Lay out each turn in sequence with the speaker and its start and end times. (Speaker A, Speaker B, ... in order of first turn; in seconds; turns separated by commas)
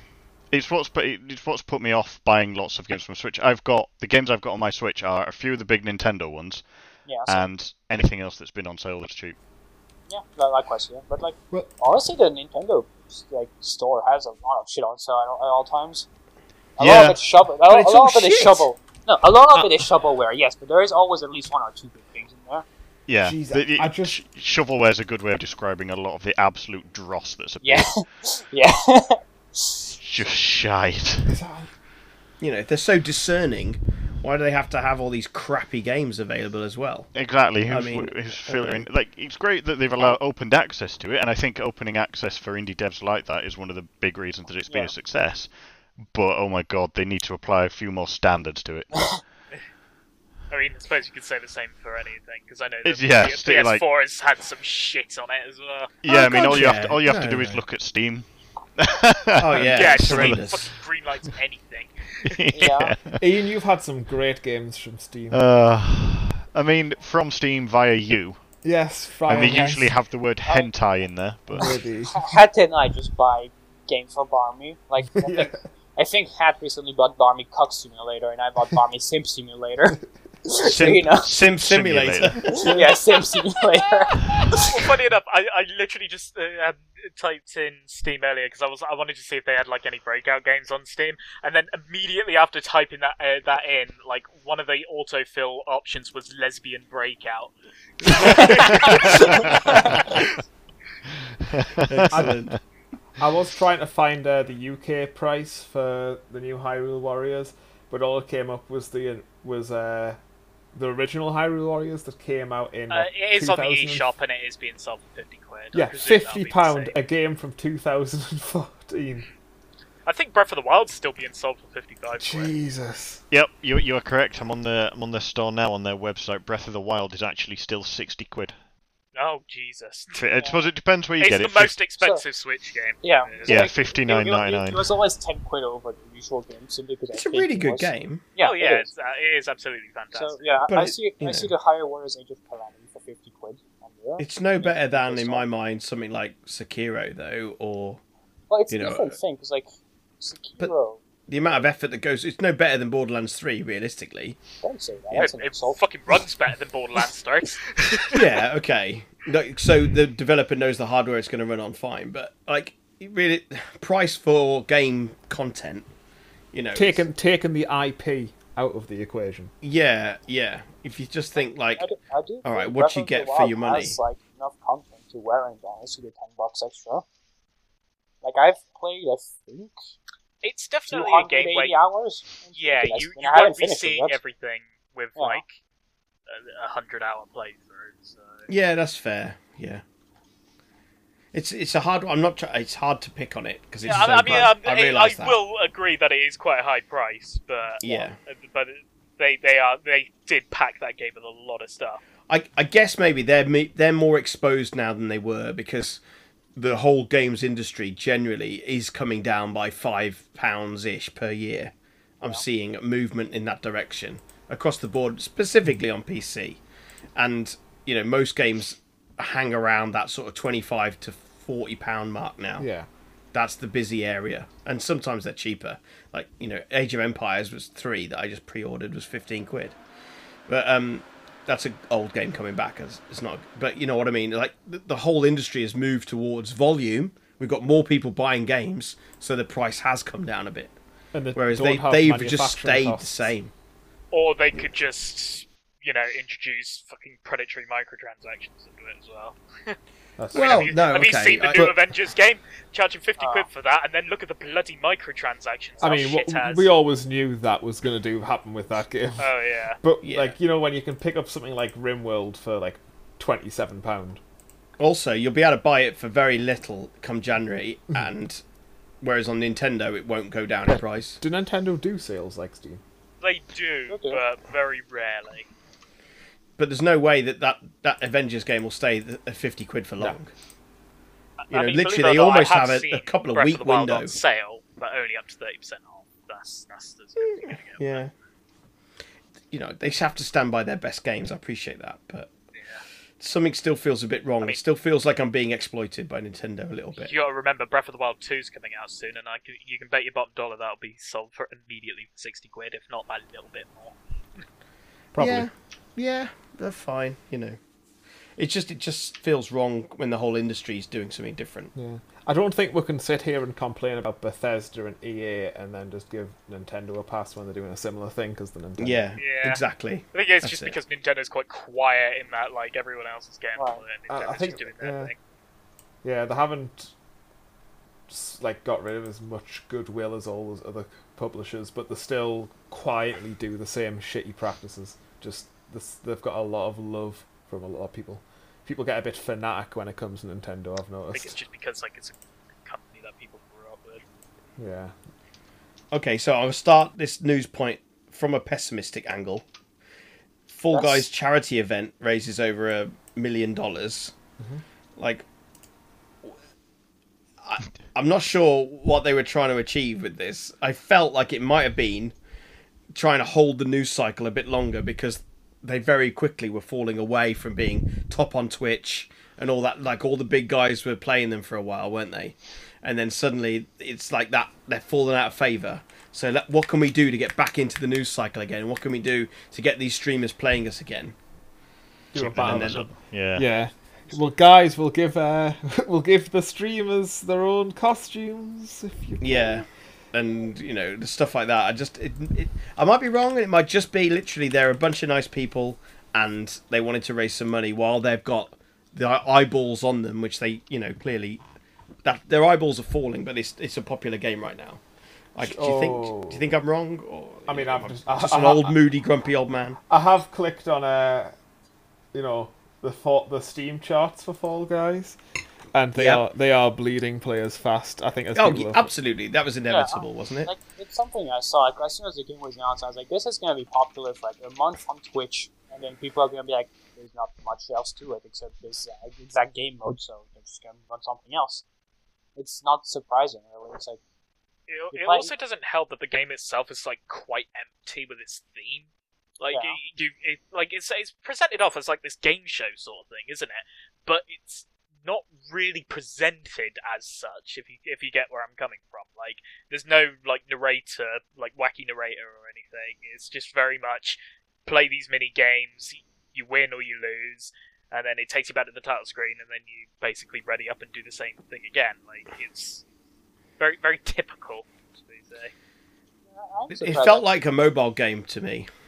Speaker A: 0.5-9.4, Speaker B: 7.0-7.5, Speaker B: 10.1-16.1, Speaker B: 16.8-22.6, Speaker A: 16.8-17.2, Speaker C: 17.7-18.6, Speaker A: 23.1-27.9, Speaker D: 23.2-24.2, Speaker B: 27.6-29.9, Speaker A: 30.0-31.3, Speaker D: 31.3-31.7, Speaker C: 32.4-37.1, Speaker A: 37.1-45.5, Speaker C: 37.6-38.9, Speaker A: 46.0-49.1, Speaker E: 50.5-55.9, Speaker A: 52.8-53.8, Speaker A: 56.0-60.5, Speaker C: 56.1-57.6, Speaker C: 59.4-60.7, Speaker E: 59.6-62.4, Speaker A: 62.2-63.2, Speaker B: 62.5-63.0, Speaker D: 63.1-65.4, Speaker A: 65.3-68.5, Speaker D: 68.6-69.9, Speaker A: 69.2-71.8, Speaker D: 71.5-72.3, Speaker B: 72.1-81.3, Speaker D: 75.2-75.6, Speaker A: 80.6-82.7, Speaker C: 80.6-82.7, Speaker B: 82.5-84.8, Speaker D: 82.6-82.9, Speaker E: 84.6-100.3, Speaker A: 101.7-102.5, Speaker C: 101.9-102.6, Speaker D: 102.1-102.4, Speaker D: 103.2-110.2, Speaker D: 110.7-114.1, Speaker E: 112.9-117.0, Speaker D: 115.7-119.3, Speaker E: 120.0-122.5, Speaker D: 122.2-123.2, Speaker A: 123.3-128.6, Speaker E: 129.1-130.2, Speaker A: 130.1-131.8, Speaker B: 130.4-130.7, Speaker E: 131.2-133.7, Speaker B: 133.0-138.9, Speaker A: 133.4-134.9, Speaker C: 137.1-138.2, Speaker E: 138.4-140.5, Speaker B: 140.1-145.4, Speaker C: 140.7-141.5, Speaker C: 144.2-148.0, Speaker B: 148.5-149.7, Speaker C: 148.7-149.2, Speaker B: 150.2-151.0, Speaker C: 151.3-154.4, Speaker B: 154.6-155.8, Speaker E: 155.1-158.2, Speaker C: 158.1-165.9, Speaker C: 166.5-167.0, Speaker D: 166.7-169.5, Speaker C: 169.6-171.9, Speaker B: 171.7-177.0, Speaker C: 172.4-174.0, Speaker B: 178.2-179.7, Speaker E: 180.4-181.8, Speaker B: 180.9-184.2, Speaker E: 182.5-185.6, Speaker B: 185.2-185.4, Speaker E: 186.3-188.5, Speaker C: 188.5-189.8, Speaker C: 191.3-195.4, Speaker E: 193.8-202.0, Speaker C: 197.8-198.2, Speaker C: 202.3-206.0, Speaker C: 206.5-216.6, Speaker C: 217.2-222.7, Speaker D: 222.6-222.9, Speaker C: 223.3-229.8, Speaker C: 230.5-240.7, Speaker D: 241.1-243.1, Speaker C: 241.3-243.5, Speaker E: 244.1-249.8, Speaker D: 250.2-250.9, Speaker C: 250.3-251.8, Speaker E: 250.3-256.7, Speaker B: 253.2-253.5, Speaker D: 255.8-264.2, Speaker E: 259.2-259.8, Speaker C: 260.0-260.3, Speaker C: 264.8-268.4, Speaker C: 269.0-271.2, Speaker D: 270.7-272.8, Speaker E: 273.2-275.5, Speaker B: 273.9-274.2, Speaker C: 276.6-280.3, Speaker E: 281.4-288.1, Speaker C: 281.5-284.1, Speaker C: 287.4-288.1, Speaker C: 289.5-292.3, Speaker C: 293.2-297.1, Speaker E: 296.9-303.9, Speaker D: 305.1-305.5, Speaker C: 305.2-307.6, Speaker C: 308.4-311.7, Speaker D: 311.7-319.1, Speaker C: 318.8-320.8, Speaker E: 319.2-319.6, Speaker E: 320.1-325.1, Speaker B: 323.6-323.8, Speaker D: 324.1-325.1, Speaker D: 326.0-326.9, Speaker D: 328.1-341.4, Speaker E: 341.1-344.0, Speaker D: 344.6-344.9, Speaker C: 345.9-349.4, Speaker C: 350.5-354.1, Speaker B: 350.7-351.0, Speaker C: 354.9-355.2, Speaker C: 357.4-362.1, Speaker C: 362.9-381.1, Speaker D: 382.1-389.6, Speaker A: 382.1-383.5, Speaker C: 382.3-382.8, Speaker C: 389.2-401.4, Speaker C: 402.0-404.8, Speaker C: 405.3-409.8, Speaker D: 405.4-406.4, Speaker D: 407.5-408.7, Speaker D: 409.9-411.3, Speaker D: 412.1-415.2, Speaker D: 415.7-418.9, Speaker C: 415.9-416.2, Speaker C: 418.3-420.5, Speaker B: 419.7-431.6, Speaker B: 432.4-434.0, Speaker E: 434.7-462.8, Speaker B: 434.9-435.3, Speaker B: 439.5-439.8, Speaker E: 463.6-465.5, Speaker B: 466.3-467.3, Speaker C: 466.7-468.7